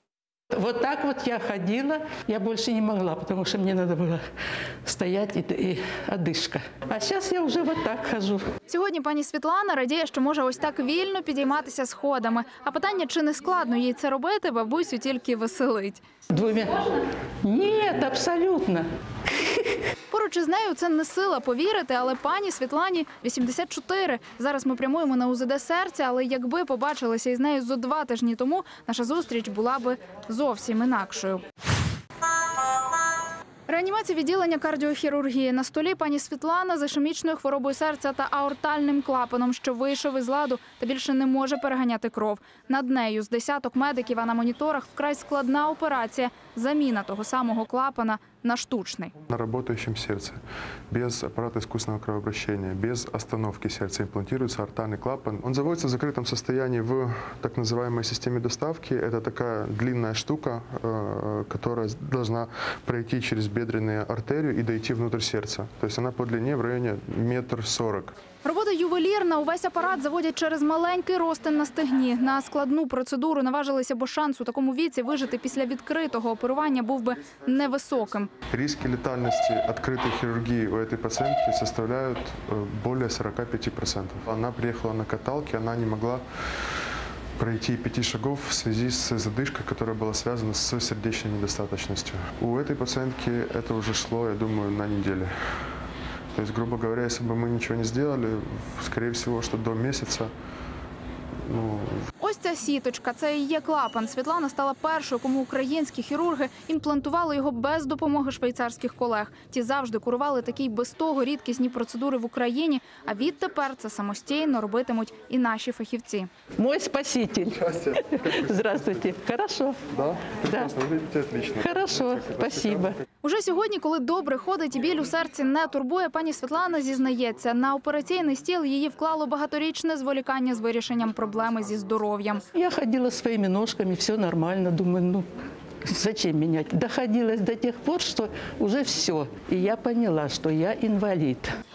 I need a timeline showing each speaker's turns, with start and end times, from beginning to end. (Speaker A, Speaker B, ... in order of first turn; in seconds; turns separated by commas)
Speaker A: 0.5-4.2, Speaker A: 4.8-8.4, Speaker B: 8.7-16.0, Speaker A: 16.3-18.8, Speaker B: 20.1-31.4, Speaker B: 33.7-49.1, Speaker C: 49.3-50.4, Speaker C: 50.9-68.2, Speaker B: 68.4-78.3, Speaker C: 78.5-86.2, Speaker C: 87.4-95.3, Speaker C: 96.3-100.3, Speaker C: 101.5-102.0, Speaker B: 102.2-116.3, Speaker A: 116.6-119.8, Speaker C: 117.6-119.1, Speaker C: 119.9-123.0, Speaker A: 120.5-120.7, Speaker A: 121.6-123.0, Speaker B: 123.2-132.4, Speaker A: 132.5-135.3, Speaker A: 135.8-141.5